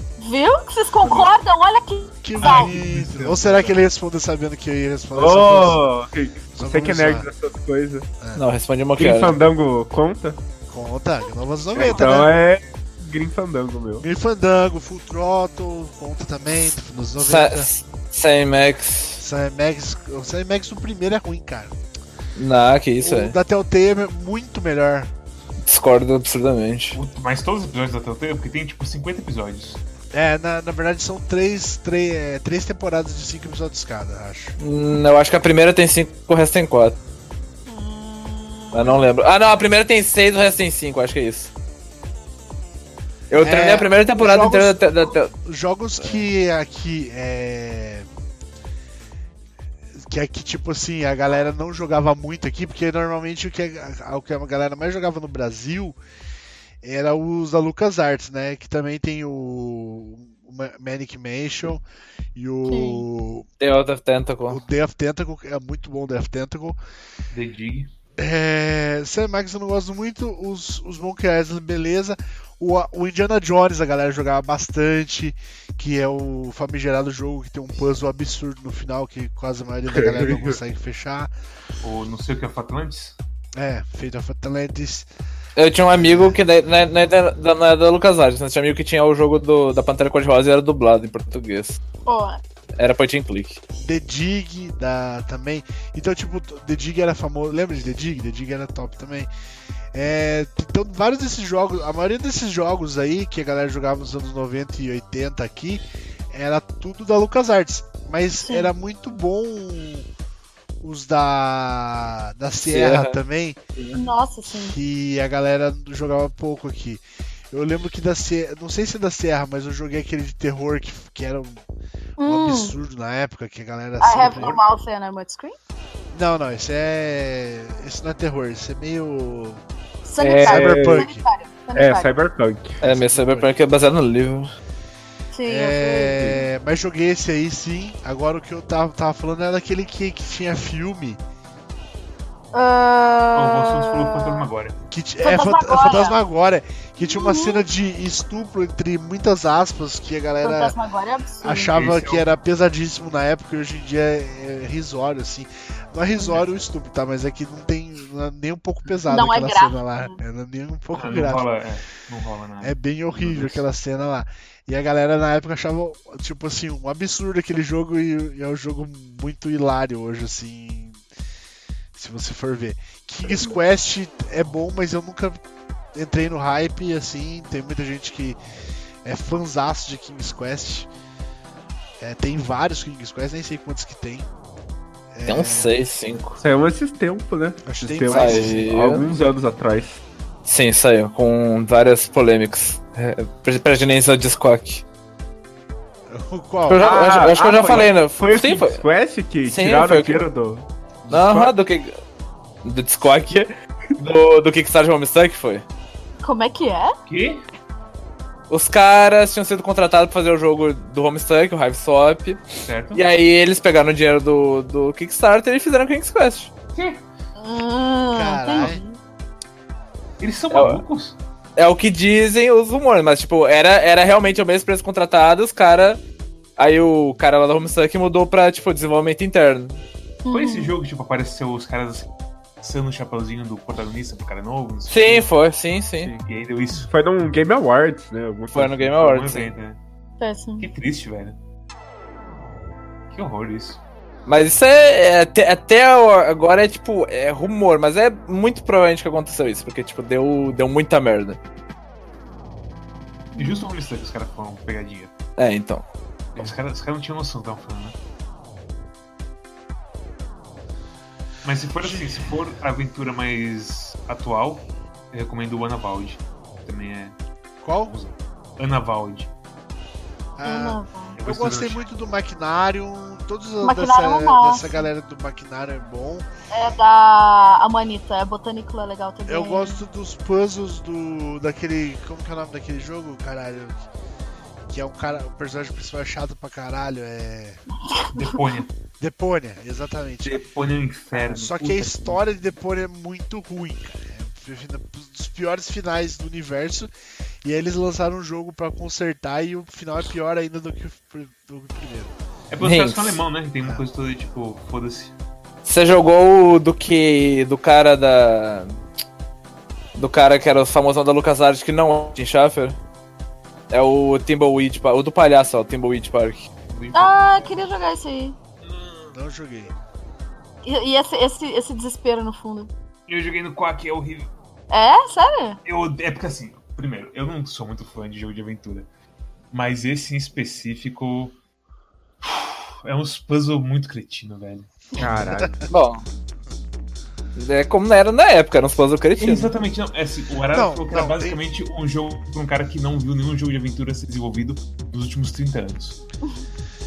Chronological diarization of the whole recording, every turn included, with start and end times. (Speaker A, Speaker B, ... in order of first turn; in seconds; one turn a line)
Speaker A: 0.2-2.7
Speaker B: 1.0-1.3
Speaker C: 2.2-5.8
Speaker B: 2.4-3.8
Speaker D: 5.1-8.1
Speaker C: 6.5-7.3
Speaker E: 8.3-9.3
Speaker D: 9.0-10.4
Speaker C: 10.7-12.3
Speaker A: 11.8-12.2
Speaker D: 11.8-14.1
Speaker C: 14.0-17.7
Speaker E: 17.2-19.2
Speaker C: 19.2-21.7
Speaker E: 22.4-23.4
Speaker C: 23.0-25.1
Speaker E: 25.6-27.0
Speaker B: 26.9-29.8
Speaker C: 30.1-34.5
Speaker E: 34.6-37.0
Speaker A: 37.7-39.0
Speaker E: 38.7-41.5
Speaker E: 43.3-45.3
Speaker C: 43.4-48.1
Speaker E: 46.0-46.2
Speaker C: 50.0-56.0
Speaker C: 56.8-61.8
Speaker C: 62.3-63.5
Speaker A: 62.6-63.0
Speaker E: 63.6-64.6
Speaker C: 64.5-66.8
Speaker B: 67.3-67.9
Speaker C: 68.2-81.3
Speaker D: 79.9-80.6
Speaker B: 81.8-83.2
Speaker C: 83.5-85.1
Speaker E: 85.5-91.8
Speaker C: 85.9-86.4
Speaker A: 92.0-92.4
Speaker E: 92.8-93.6
Speaker C: 93.8-99.3
Speaker C: 99.9-110.1
Speaker C: 110.8-113.6
Speaker E: 112.7-113.2
Speaker A: 113.9-114.8
Speaker C: 114.5-121.6
Speaker A: 122.2-122.8
Speaker C: 122.2-124.6
Speaker A: 124.0-125.5
Speaker C: 126.1-129.6
Speaker A: 130.0-132.1
Speaker D: 130.2-131.1
Speaker C: 130.4-131.2
Speaker D: 131.7-132.8
Speaker E: 132.8-134.5
Speaker C: 132.8-133.5
Speaker A: 135.3-136.4
Speaker C: 135.4-141.2
Speaker A: 142.5-144.5
Speaker B: 143.3-144.8
Speaker C: 144.9-150.8
Speaker A: 145.2-146.2
Speaker A: 147.0-147.6
Speaker A: 150.4-151.7
Speaker C: 151.4-161.5
Speaker B: 151.7-152.3
Speaker A: 159.1-160.2
Speaker B: 160.9-163.6
Speaker C: 162.6-171.0
Speaker C: 171.9-175.4
Speaker A: 173.3-173.6
Speaker C: 175.9-178.4
Speaker C: 179.0-180.9
Speaker C: 182.0-184.3
Speaker C: 185.1-185.7
Speaker E: 185.3-186.4
Speaker D: 186.4-190.0
Speaker C: 187.6-188.7
Speaker E: 188.1-189.0
Speaker E: 190.4-194.8
Speaker C: 196.1-196.9
Speaker E: 196.7-198.8
Speaker D: 196.8-201.5
Speaker E: 199.5-200.2
Speaker E: 201.1-201.9
Speaker E: 202.6-205.6
Speaker A: 206.2-206.9
Speaker B: 207.1-207.4
Speaker E: 208.5-216.5
Speaker B: 212.7-213.0
Speaker B: 216.7-217.0
Speaker A: 217.4-219.0
Speaker C: 218.1-218.8
Speaker B: 220.2-221.2
Speaker E: 220.5-220.8
Speaker E: 221.6-226.0
Speaker E: 226.6-229.8
Speaker A: 230.2-230.8
Speaker B: 230.3-232.1
Speaker B: 232.6-235.3
Speaker E: 234.9-236.1
Speaker B: 236.2-236.9
Speaker D: 236.9-239.0
Speaker E: 238.5-239.5
Speaker B: 239.0-239.8
Speaker A: 240.2-240.7
Speaker B: 240.6-241.4
Speaker B: 243.1-243.8
Speaker E: 244.2-251.4
Speaker B: 253.3-255.1
Speaker A: 253.3-253.7
Speaker E: 255.4-255.8
Speaker B: 256.4-257.9
Speaker B: 261.4-267.2
Speaker C: 261.8-262.3
Speaker C: 267.6-267.9
Speaker B: 267.8-269.3
Speaker C: 270.4-276.3
Speaker A: 270.4-271.2
Speaker B: 271.1-271.9
Speaker A: 273.6-274.9
Speaker A: 276.5-279.8
Speaker C: 279.2-283.9
Speaker C: 284.7-287.6
Speaker A: 287.9-288.3
Speaker B: 288.1-288.7
Speaker C: 289.0-290.4
Speaker B: 290.2-292.2
Speaker C: 291.1-296.9
Speaker C: 297.4-302.1
Speaker B: 302.5-305.1
Speaker E: 302.6-303.2
Speaker E: 305.6-308.8
Speaker E: 309.9-312.8
Speaker E: 313.7-316.5
Speaker B: 316.7-317.6
Speaker A: 316.9-318.4
Speaker B: 318.6-319.1
Speaker C: 319.1-319.7
Speaker A: 320.6-322.7
Speaker B: 323.1-324.3
Speaker A: 324.7-325.6
Speaker B: 325.6-328.9
Speaker B: 329.5-331.4
Speaker B: 332.2-335.2
Speaker D: 335.0-335.6
Speaker C: 335.0-335.7
Speaker E: 335.7-336.0
Speaker E: 337.4-339.5
Speaker B: 339.2-346.0
Speaker C: 340.5-341.4